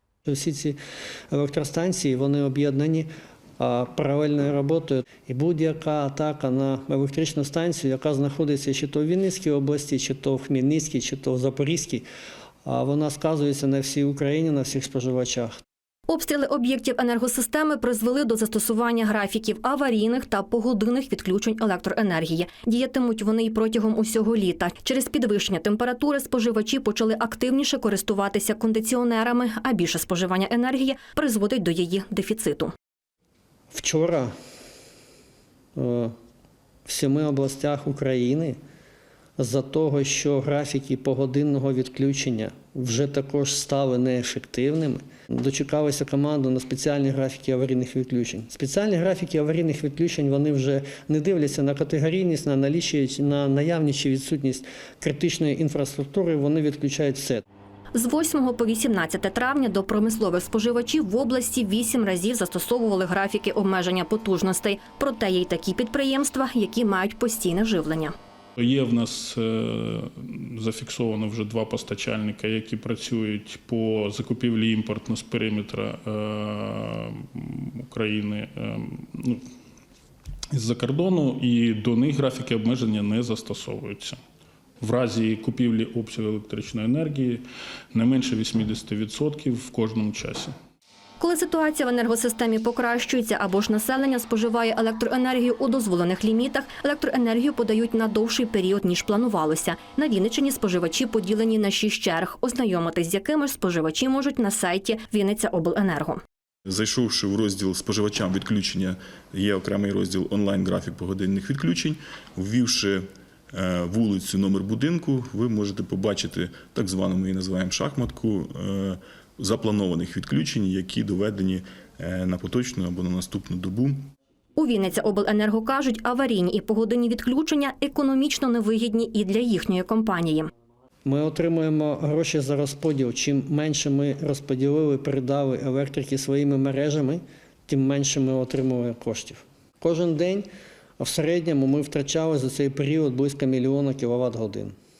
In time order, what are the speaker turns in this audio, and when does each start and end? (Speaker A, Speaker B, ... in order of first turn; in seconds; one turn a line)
Speaker A: 0.2-0.8
Speaker A: 1.3-12.1
Speaker A: 12.6-15.5
Speaker B: 16.1-32.7
Speaker A: 33.7-34.3
Speaker A: 35.8-36.1
Speaker A: 36.9-38.6
Speaker A: 39.4-57.4
Speaker B: 57.9-68.1
Speaker C: 68.6-79.4
Speaker C: 80.5-84.2
Speaker C: 84.8-90.5
Speaker B: 91.2-106.2
Speaker D: 106.7-124.0
Speaker B: 124.5-130.5
Speaker A: 131.0-140.5
Speaker A: 141.0-144.7